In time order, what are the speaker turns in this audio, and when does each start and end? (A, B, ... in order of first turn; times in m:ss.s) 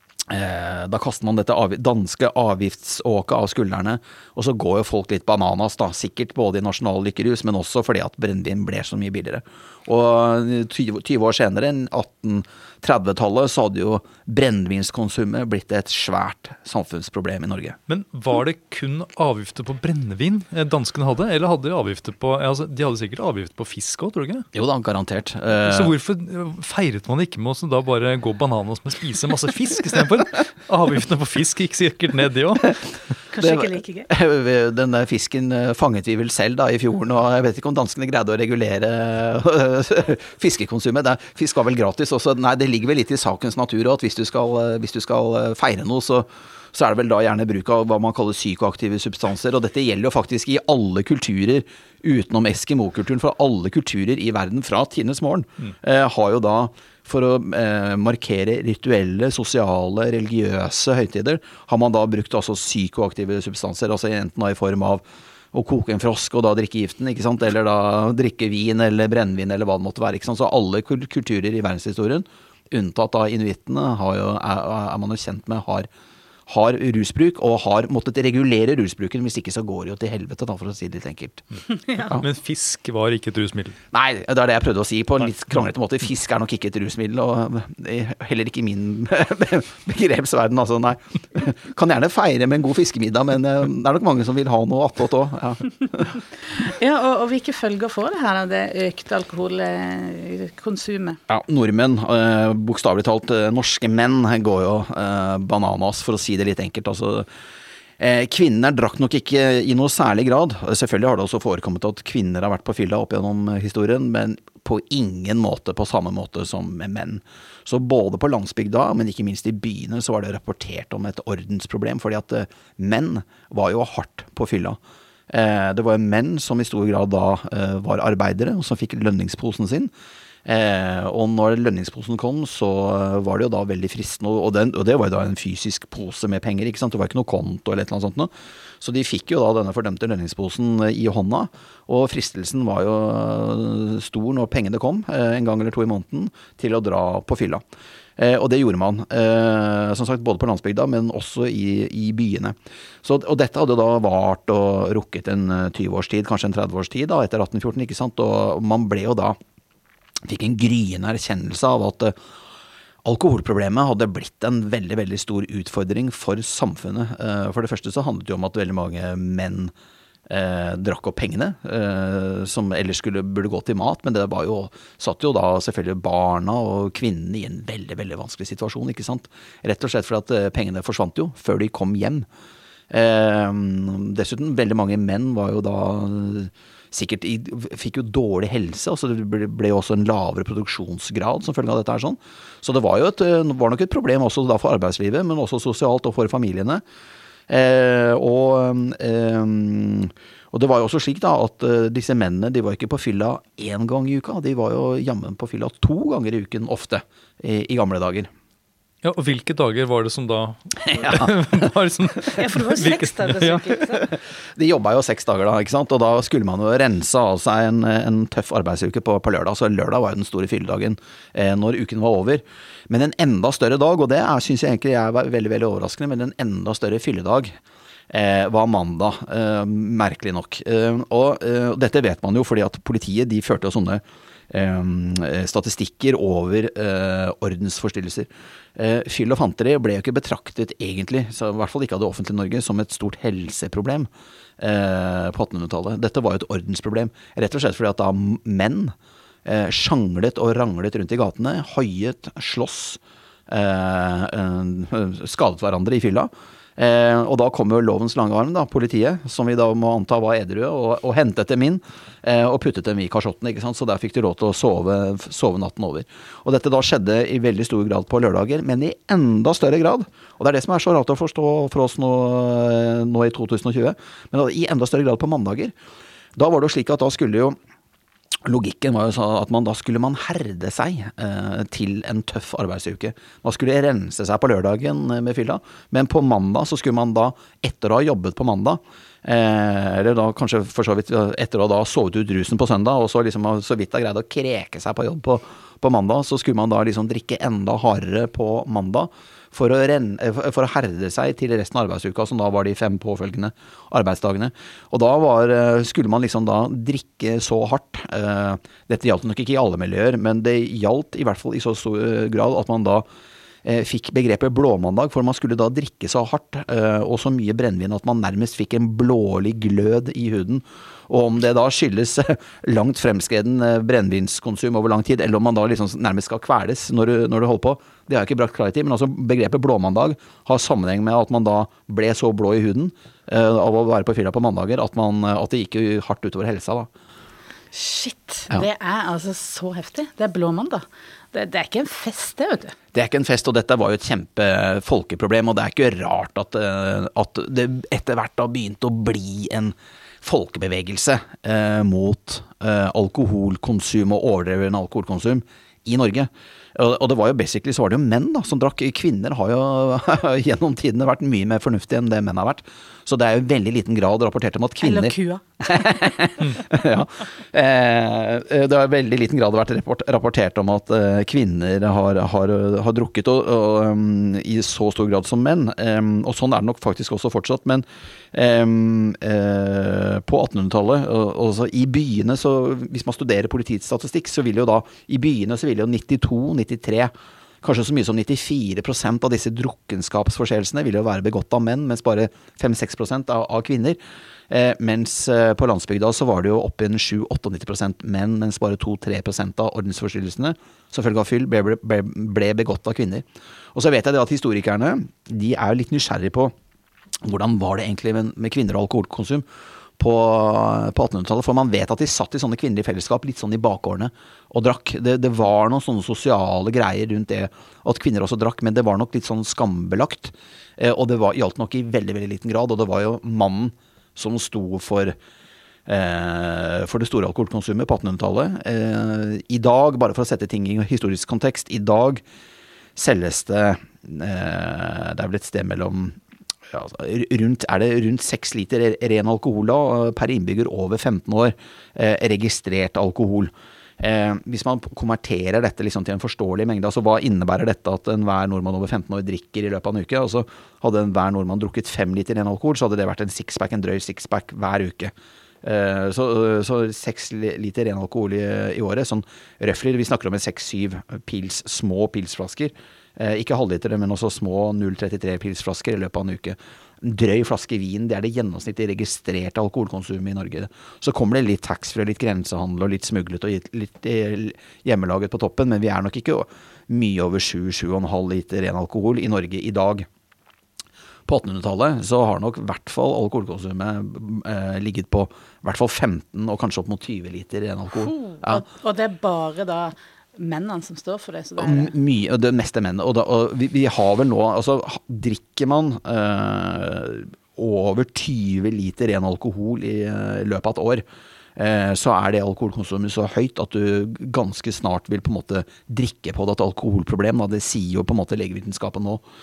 0:00.3-0:17.8 A
0:17.9-0:24.5 B
0:24.5-0:25.9 A
0:25.6-0:33.2 B
0:33.3-0:34.1 C
0:33.4-1:15.9 A
1:16.5-1:21.4 A
1:22.1-1:23.8 B
1:23.9-1:36.2 A
1:36.4-1:41.2 C
1:41.3-1:47.3 A
1:48.0-2:04.8 A
2:05.3-2:09.9 A
2:10.4-2:18.3 A
2:18.8-2:27.6 A
2:28.2-2:39.4 A
2:40.2-2:42.2 A
2:43.0-2:49.7 A
2:50.3-3:02.3 A
3:02.9-3:16.8 A
3:17.5-3:28.3 A
3:29.0-3:33.9 B
3:30.9-3:31.4 A
3:32.3-3:34.0 C
3:34.6-3:47.6 A
3:48.1-4:04.1 A
4:04.6-4:08.9 A
4:09.4-4:35.7 A
4:36.4-4:37.6 A
4:38.4-5:13.0 A
5:13.6-5:36.9 A
5:37.7-5:42.8 C
5:42.9-6:34.0 A
6:04.8-6:06.1 C
6:34.5-6:46.5 A
6:47.2-6:49.5 A
6:50.0-7:05.2 A
7:05.9-7:12.2 A
7:13.0-8:00.1 A
8:01.3-8:08.6 A
8:08.0-8:11.9 C
8:11.6-8:21.0 A
8:21.6-8:29.2 A